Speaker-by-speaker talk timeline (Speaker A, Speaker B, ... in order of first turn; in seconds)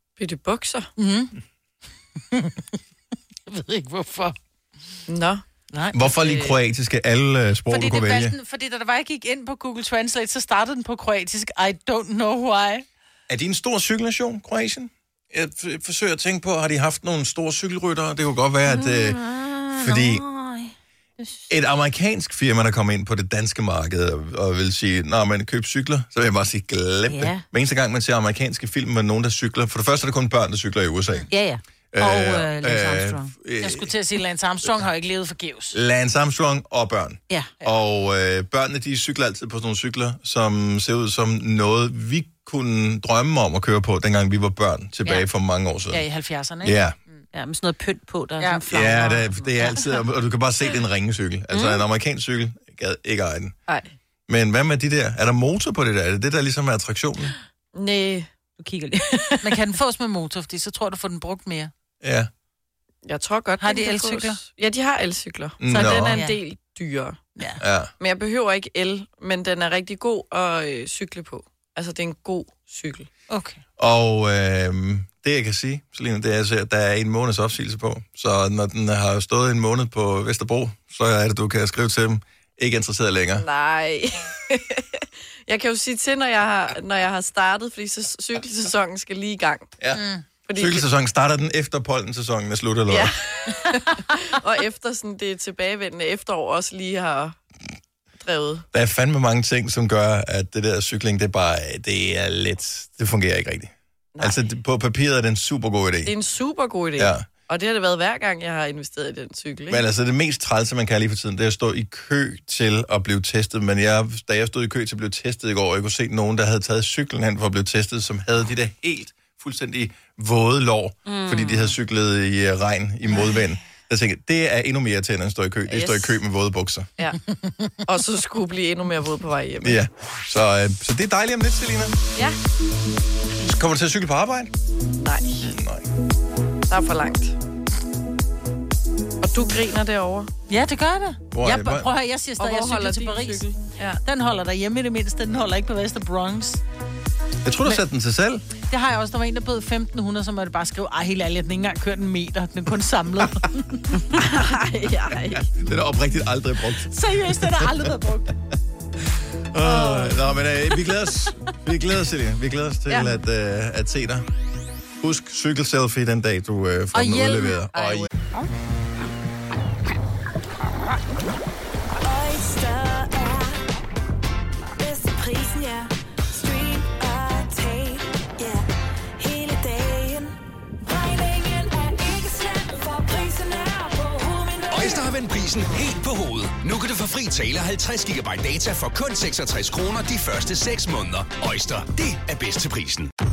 Speaker A: 0.2-0.9, 5.1-5.4, 6.0-6.6, 53.7-53.9, 57.7-58.3, 63.0-67.2, 68.0-73.1, 83.4-89.7, 90.5-90.9, 92.9-97.4, 98.2-98.7, 106.0-109.8, 125.7-126.2, 127.8-129.8, 135.0-135.5, 136.7-137.4, 139.2-140.3, 142.4-144.0, 154.1-155.5, 162.9-163.2
Speaker B: 1.0-1.4, 2.3-2.7, 3.5-4.4, 7.7-12.9, 33.6-35.8, 45.9-46.8, 48.4-49.3, 59.4-61.7, 63.6-64.4, 65.7-66.4, 73.3-73.6, 89.9-90.2, 140.5-143.5, 144.0-146.6, 148.7-154.0, 156.9-158.3, 159.7-160.2, 166.9-168.1
Speaker C: 5.9-8.3, 13.3-19.2, 19.7-20.2, 21.5-31.3, 31.9-33.9, 35.7-46.0, 46.6-47.0, 48.7-53.5, 54.3-57.4, 62.0-62.3, 65.6-66.2, 67.6-67.9, 73.8-83.5, 90.5-93.1, 98.7-106.1, 107.0-107.3, 109.7-126.9, 129.6-132.0, 133.4-134.5, 135.4-135.8, 141.3-141.9, 147.4-148.4, 155.2-157.9, 159.5-164.3, 165.0-168.1
Speaker D: 18.7-21.5, 27.1-27.4, 31.3-33.3, 47.3-49.3, 51.5-51.8, 58.6-59.6, 121.1-121.8
Speaker E: 172.0-173.6, 174.8-178.7, 179.2-185.1
Speaker F: 184.7-193.1